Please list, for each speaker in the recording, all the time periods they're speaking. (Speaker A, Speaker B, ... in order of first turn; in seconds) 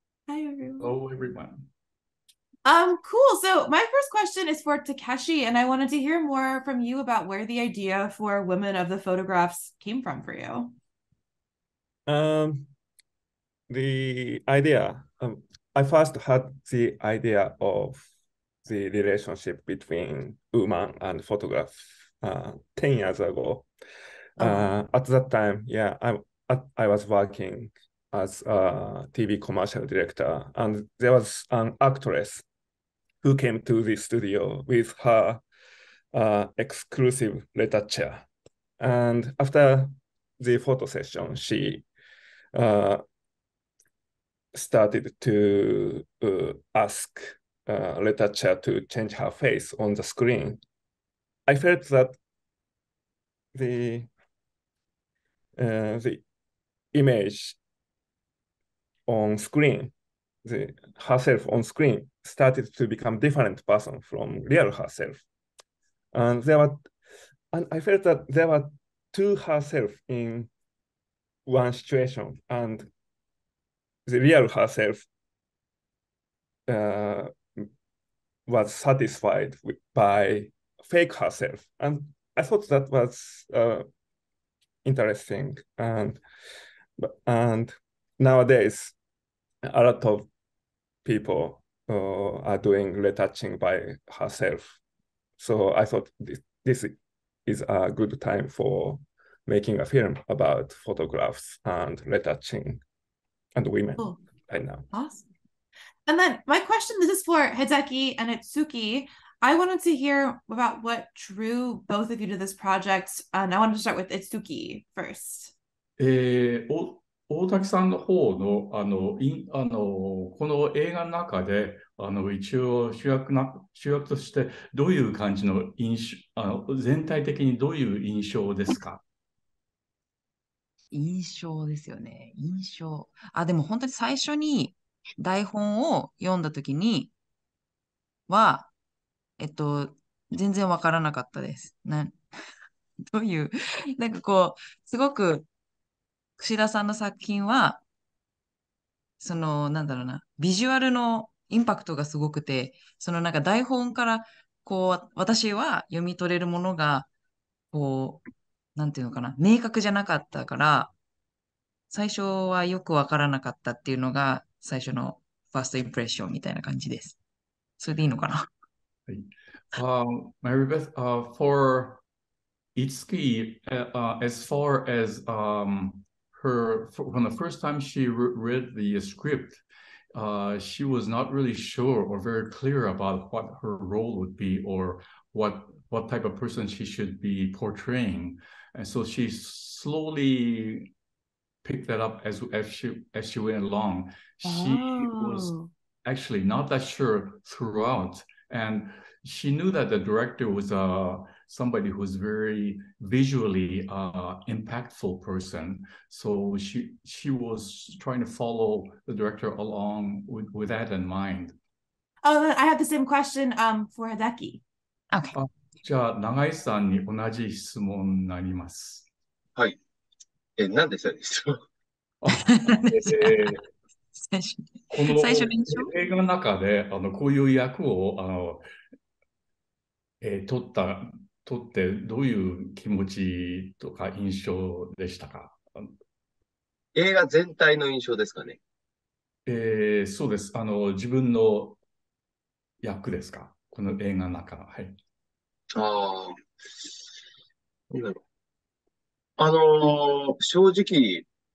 Speaker A: 0.3-0.9, 2.6-10.7, 24.4-24.7, 104.9-105.3, 106.0-115.5, 194.4-195.7, 212.2-214.6
Speaker B: 0.8-1.7, 116.0-129.0, 169.1-172.0, 172.7-190.9, 191.6-211.6, 215.3-219.1, 222.2-223.7, 224.9-228.6, 230.2-235.9, 239.4-241.8, 242.8-245.0
Speaker C: 12.1-12.7, 13.7-18.0, 18.6-23.7, 24.4-32.4, 33.2-35.4, 36.1-38.3, 38.8-41.8, 42.5-43.0, 44.5-50.6, 51.5-52.2, 53.5-54.1, 55.6-56.2, 56.9-57.6, 59.1-59.9, 60.4-65.2, 66.1-66.9, 67.5-70.5, 71.5-72.9, 74.0-75.1, 76.7-77.7, 78.5-83.8, 84.8-86.2, 87.0-88.9, 89.6-90.3, 91.0-94.8, 95.4-102.8, 103.5-104.9
Speaker D: 130.9-137.1, 138.3-138.7, 139.4-142.2, 143.1-145.5, 146.4-147.8, 149.2-157.1, 157.7-158.2, 158.8-160.9, 161.9-167.2, 167.8-168.5, 215.1-215.4, 222.2-223.6, 224.2-225.9
Speaker E: 220.6-221.5, 236.9-238.6, 245.7-246.3, 247.9-248.2, 249.4-251.2